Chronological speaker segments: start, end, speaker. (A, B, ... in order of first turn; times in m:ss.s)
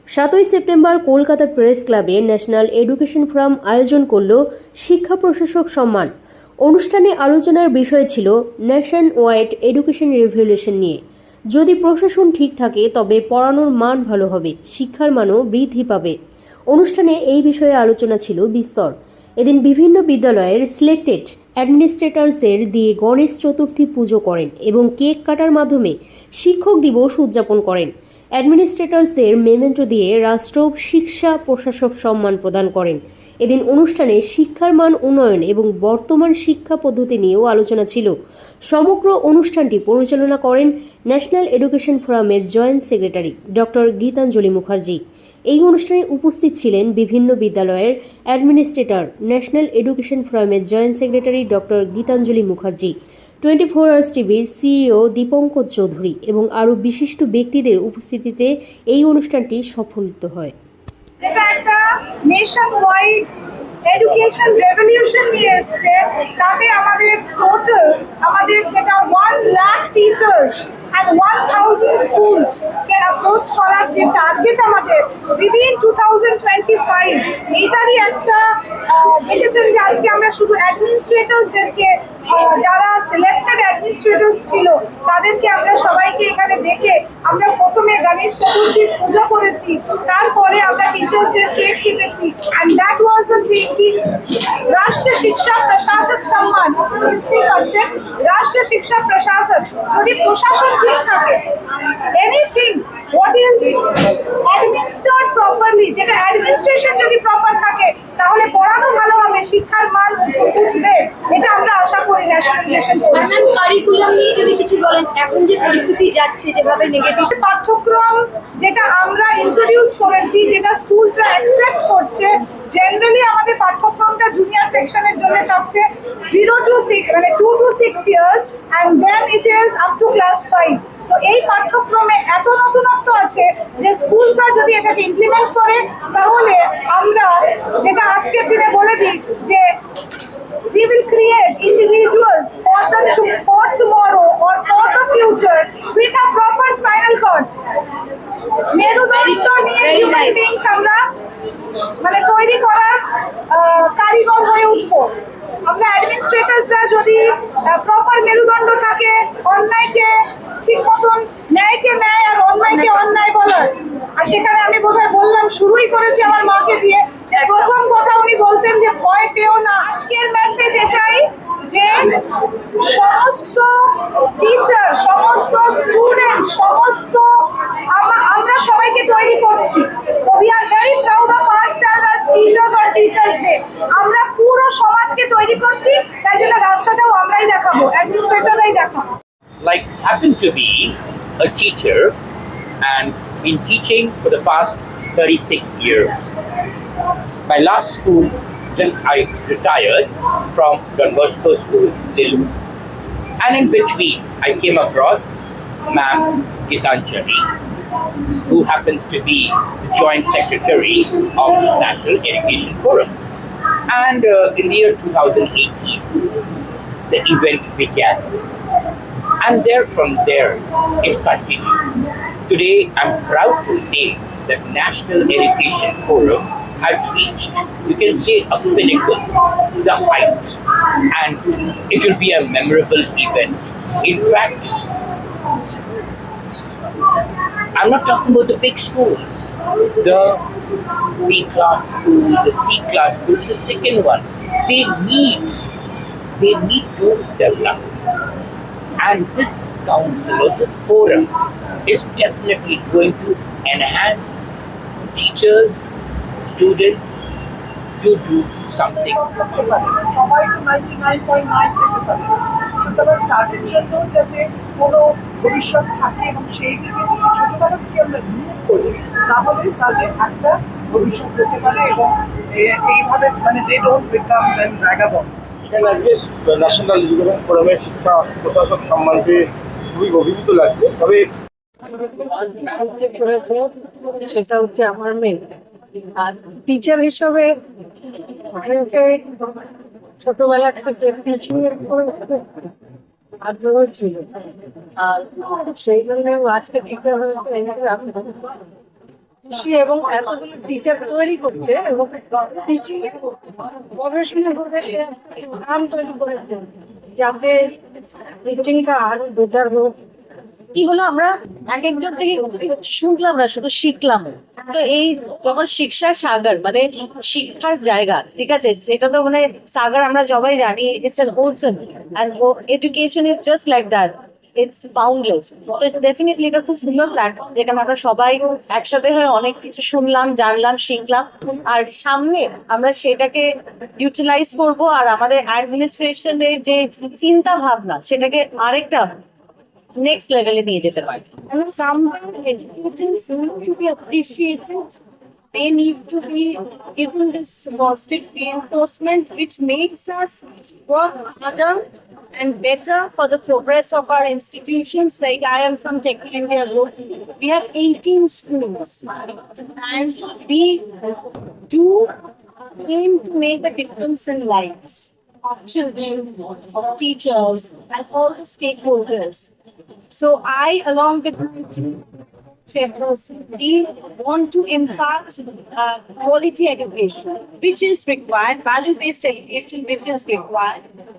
0:00.1-0:06.1 A
0:06.6-0:11.0 A
0:11.5-0:16.2 A
0:16.7-0:38.1 A
0:38.7-0:45.0 A
0:45.5-1:00.5 A
1:01.2-1:03.3 B
1:03.9-1:33.9 B
1:34.7-1:41.4 B
1:42.2-1:53.3 B
1:53.2-1:57.3 C
1:57.3-2:19.7 B
2:20.7-2:27.5 B
2:28.7-2:31.0 B
2:28.9-2:30.5 C
2:32.0-2:35.1 B
2:35.7-2:52.1 B
2:47.4-2:47.7 C
2:52.8-2:57.3 B
2:57.9-3:09.0 B
3:09.6-3:12.2 D
3:12.8-3:16.5 D
3:17.5-3:22.6 D
3:23.4-3:27.5 D
3:28.4-3:33.2 D
3:33.9-3:36.4 D
3:37.1-3:38.3 D
3:39.4-3:49.3 D
3:49.8-3:50.6 D
3:51.1-3:54.9 D
3:55.5-3:56.6 D
3:57.8-4:00.4 D
4:01.2-4:05.5 D
4:06.4-4:07.9 D
4:09.0-4:11.3 D
4:11.9-4:15.9 D
4:16.4-4:17.3 D
4:18.0-4:19.2 D
4:18.9-4:32.1 E
4:32.8-4:35.4 E
4:35.5-4:41.3 F
4:42.2-4:45.4 G
4:46.2-4:47.4 G
4:48.6-4:49.3 G
4:50.2-4:52.4 G
4:53.5-4:54.2 G
4:55.2-4:58.5 G
4:59.5-5:02.9 G
5:04.8-5:05.6 G
5:07.2-5:07.7 G
5:08.4-5:08.8 G
5:10.7-5:33.5 H
5:34.0-5:39.1 H
5:40.0-5:41.3 H
5:41.5-5:44.9 I
5:45.5-5:51.8 I
5:52.4-6:00.9 I
6:01.7-6:02.1 I
6:02.7-6:09.5 I
6:10.1-6:12.0 I
6:12.7-6:20.8 I